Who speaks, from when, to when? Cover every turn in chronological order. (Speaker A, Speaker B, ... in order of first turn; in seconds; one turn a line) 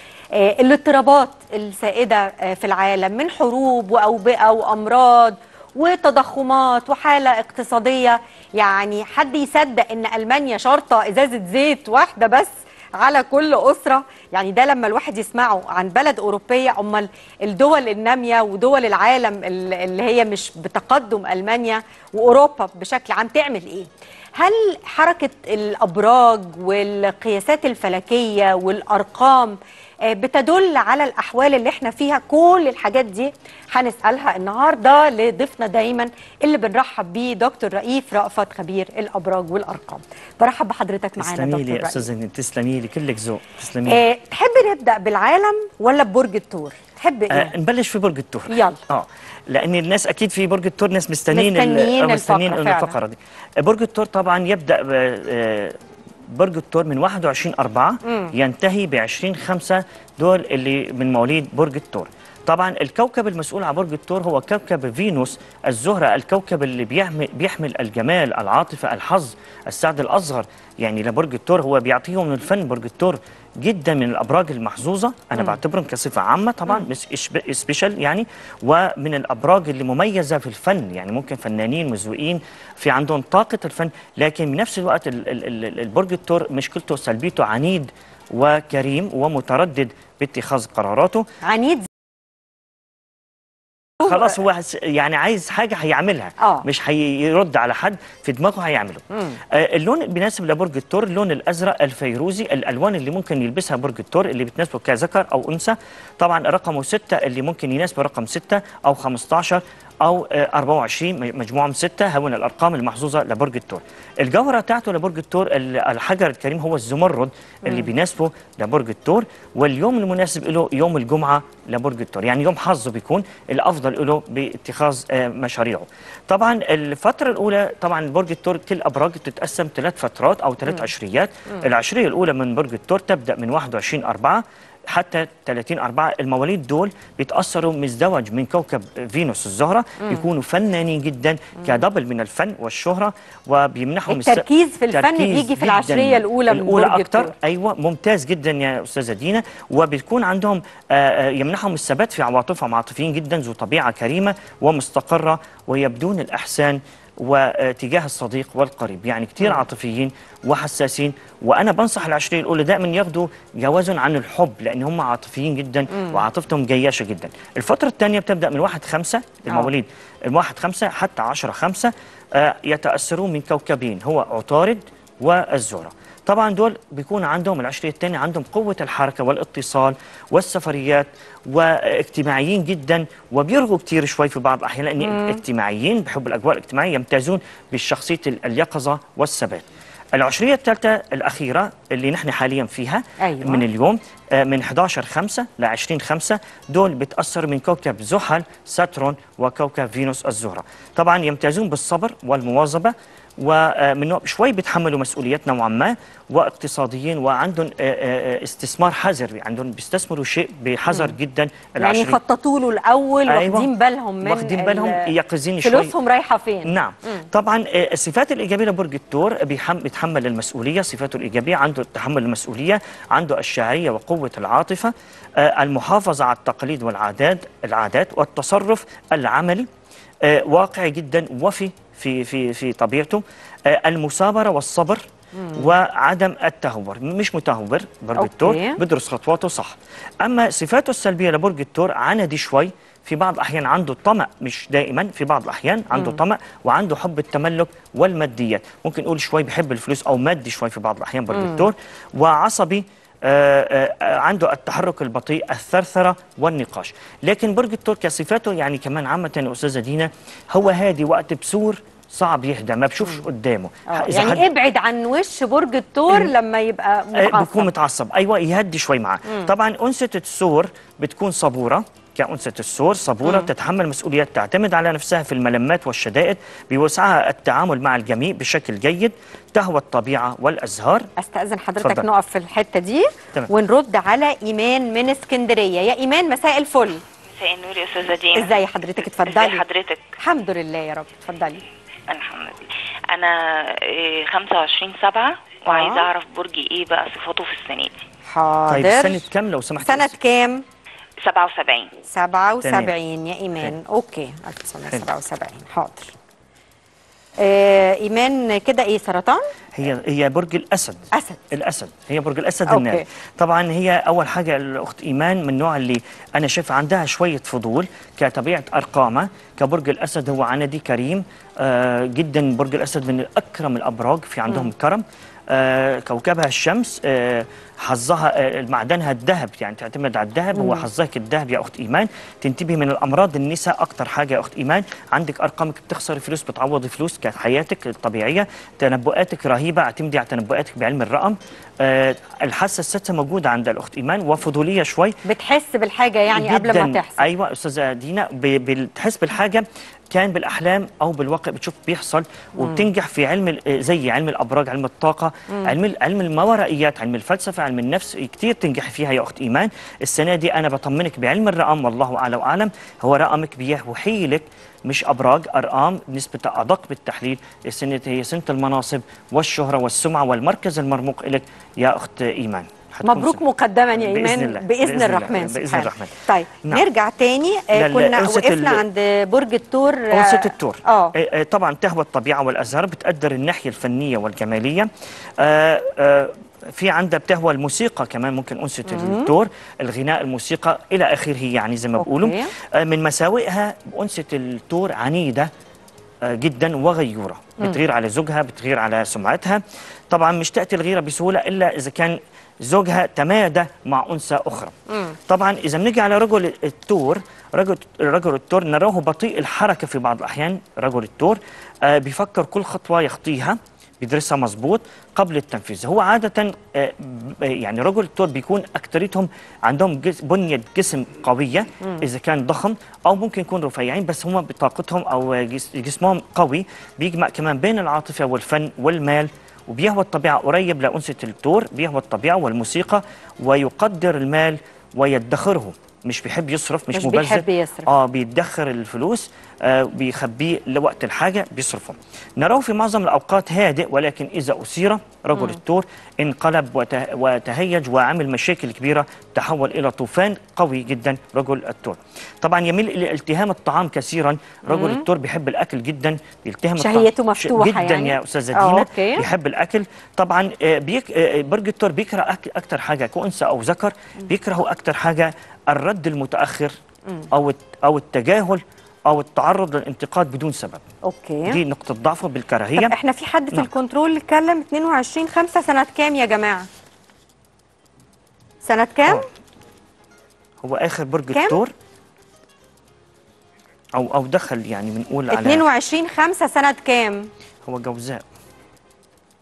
Speaker A: 0.3-42.1
Speaker B: 41.2-44.0
Speaker A: 43.9-47.5
Speaker B: 47.3-91.2
Speaker A: 48.5-48.8
Speaker A: 51.3-53.0
Speaker A: 58.1-58.3
Speaker A: 91.4-91.9
Speaker B: 94.0-212.2
Speaker A: 96.4-96.7
Speaker A: 144.1-147.3
Speaker A: 185.0-185.4
Speaker A: 193.2-193.7
Speaker A: 211.8-215.1
Speaker B: 213.3-213.7
Speaker B: 214.2-215.9
Speaker A: 215.6-217.2
Speaker B: 216.7-229.7
Speaker B: 230.2-264.4
Speaker A: 235.4-235.8
Speaker A: 238.2-238.8
Speaker A: 245.9-246.2
Speaker A: 251.3-251.7
Speaker A: 263.9-267.7
Speaker B: 267.1-281.1
Speaker A: 281.2-287.0
Speaker B: 281.8-282.1
Speaker C: 287.4-288.6
Speaker A: 288.4-289.6
Speaker C: 289.1-290.1
Speaker A: 290.2-291.6
Speaker C: 292.1-298.0
Speaker A: 295.7-296.1
Speaker A: 298.3-299.2
Speaker B: 298.7-300.2
Speaker A: 299.8-300.6
Speaker C: 301.2-301.9
Speaker A: 302.1-306.1
Speaker B: 302.6-302.9
Speaker A: 307.4-309.4
Speaker B: 309.8-345.2
Speaker A: 311.1-311.4
Speaker A: 312.7-313.1
Speaker A: 330.6-330.9
Speaker A: 345.3-347.3
Speaker B: 346.3-373.4
Speaker A: 352.6-352.9
Speaker A: 373.0-381.1
Speaker B: 373.9-376.9
Speaker B: 377.7-378.8
Speaker B: 380.1-395.5
Speaker A: 388.9-389.3
Speaker A: 392.0-392.5
Speaker B: 396.2-404.7
Speaker B: 405.3-466.7
Speaker A: 436.9-437.9
Speaker A: 454.7-455.1
Speaker A: 456.8-459.3
Speaker B: 467.3-470.8
Speaker A: 471.1-471.6
Speaker B: 471.5-472.9
Speaker A: 472.8-476.7
Speaker A: 478.6-479.2
Speaker B: 480.6-481.7
Speaker A: 481.3-481.6
Speaker B: 483.9-485.6
Speaker A: 485.3-487.3
Speaker B: 487.7-488.2